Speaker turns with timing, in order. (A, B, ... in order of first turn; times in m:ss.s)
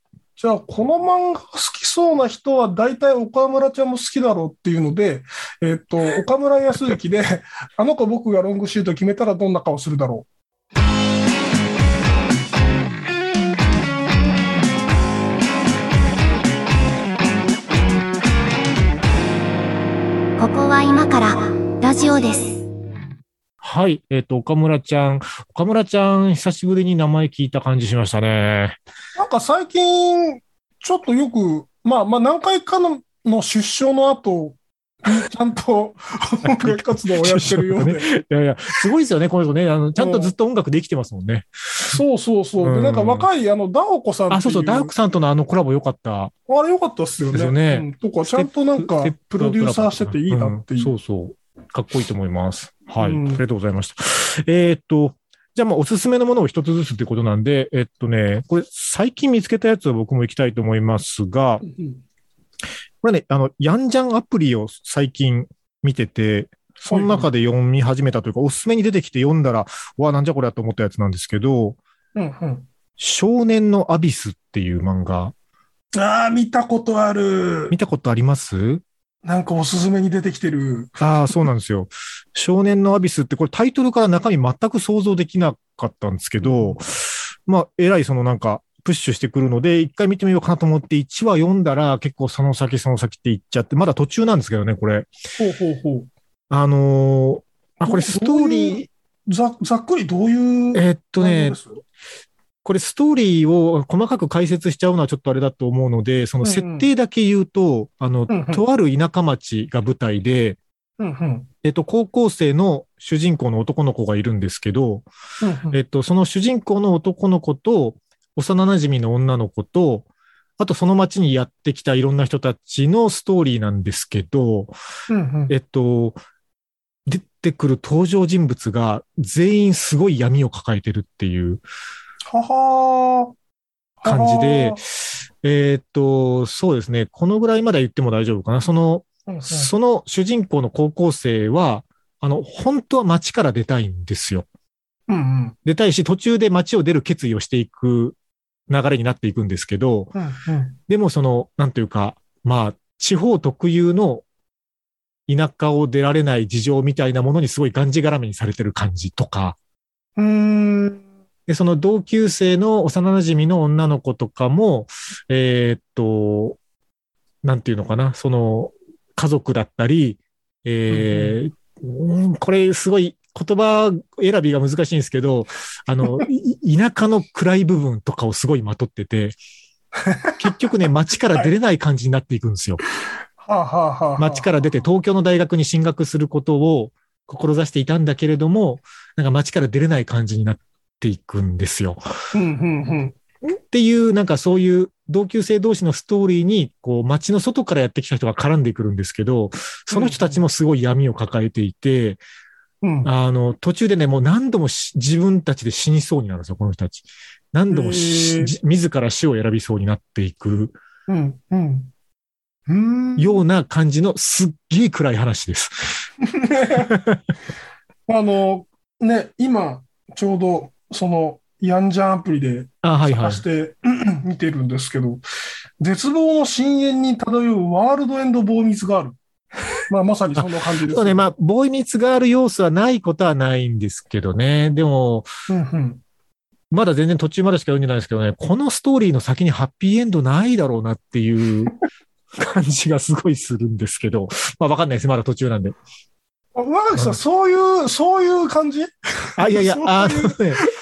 0:00.4-0:10.3 A
0:20.4-0:22.6 B
0:23.6-0:28.8 C
0:29.2-0:38.1 A
0:36.4-0:42.0 C
0:40.0-0:40.3 A
0:41.9-0:44.9 A
0:42.6-0:43.3 C
0:44.3-0:46.3 C
0:46.5-0:50.9 A
0:47.3-1:01.6 C
0:53.0-0:53.4 A
1:01.6-1:02.0 A
1:03.0-1:11.8 C
1:06.8-1:07.3 A
1:12.2-1:12.7 A
1:13.0-1:15.3 C
1:16.0-1:17.8 A
1:17.7-1:18.8 C
1:19.2-1:21.0 A
1:21.0-1:35.1 C
1:26.4-1:26.8 A
1:35.4-1:36.1 A
1:36.5-1:38.9 C
1:37.8-1:41.8 A
1:40.7-1:41.6 C
1:42.6-1:50.6 C
1:46.4-1:46.9 A
1:48.3-1:48.6 A
1:51.0-1:51.5 A
1:51.6-1:55.1 C
1:55.4-1:55.8 A
1:55.7-2:00.1 C
2:00.6-2:04.7 C
2:05.1-2:05.5 A
2:05.5-2:06.2 C
2:07.1-2:11.6 C
2:12.3-2:13.3 A
2:14.0-2:14.8 A
2:14.0-2:14.8 C
2:15.4-2:24.5 C
2:19.3-2:19.7 A
2:25.1-2:25.6 A
2:25.6-2:28.2 C
2:28.7-2:30.1 C
2:30.1-2:30.8 A
2:30.9-2:34.2 C
2:35.3-2:39.6 C
2:40.2-2:41.0 A
2:41.5-2:46.6 C
2:47.4-2:59.4 C
2:50.9-2:51.4 A
3:00.0-3:00.4 A
3:00.4-3:02.8 C
3:03.4-3:04.7 A
3:04.2-3:12.0 C
3:12.3-3:13.2 A
3:13.4-3:22.2 C
3:19.9-3:20.4 A
3:22.8-3:23.1 A
3:23.0-3:30.8 C
3:27.7-3:28.5 A
3:31.1-3:31.9 A
3:32.7-3:33.4 A
3:33.2-3:36.1 C
3:36.2-3:36.9 A
3:36.9-3:37.2 C
3:38.1-3:45.2 A
3:42.8-3:43.4 C
3:45.8-3:49.2 A
3:49.9-3:51.3 A
3:50.4-3:55.3 C
3:55.5-3:56.0 A
3:56.7-4:01.8 C
4:02.4-4:05.8 C
4:06.6-4:10.7 A
4:09.4-4:10.6 C